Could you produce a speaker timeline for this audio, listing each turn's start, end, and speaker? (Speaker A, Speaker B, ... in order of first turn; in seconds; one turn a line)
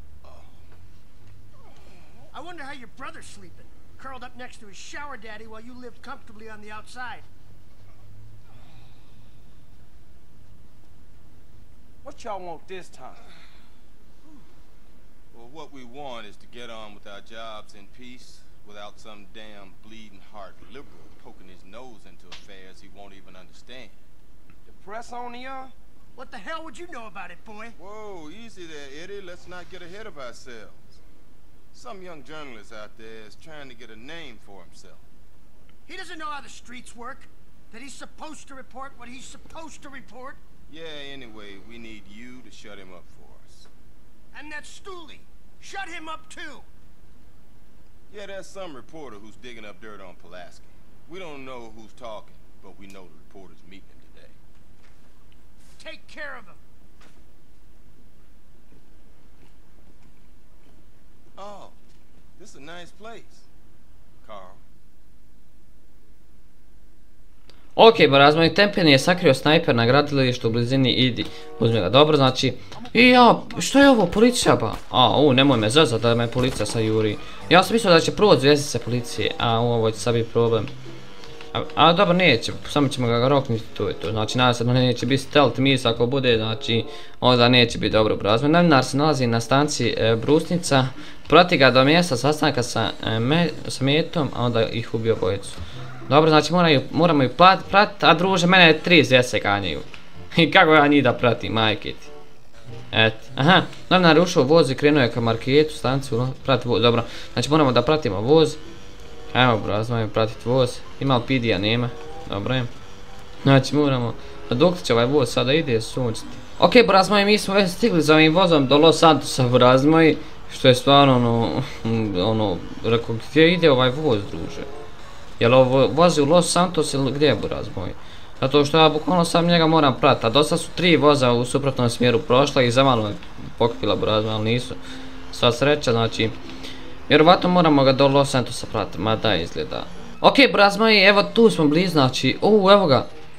Speaker A: 0.2-0.7
Speaker B: 2.3-7.3
Speaker C: 12.0-13.2
Speaker A: 15.3-24.0
Speaker C: 24.7-25.7
Speaker B: 26.1-27.8
Speaker A: 27.8-31.0
Speaker A: 31.7-35.0
Speaker B: 35.9-40.4
Speaker A: 40.7-43.7
Speaker B: 44.3-46.6
Speaker A: 48.1-54.4
Speaker B: 55.8-56.6
Speaker A: 61.4-61.8
Speaker A: 62.4-63.5
Speaker A: 64.2-64.6
Speaker D: 67.8-80.7
Speaker C: 72.8-73.7
Speaker D: 81.5-102.1
Speaker D: 102.9-108.6
Speaker D: 109.3-112.7
Speaker D: 113.4-124.7
Speaker D: 125.4-134.8
Speaker D: 135.3-136.3
Speaker D: 137.1-143.1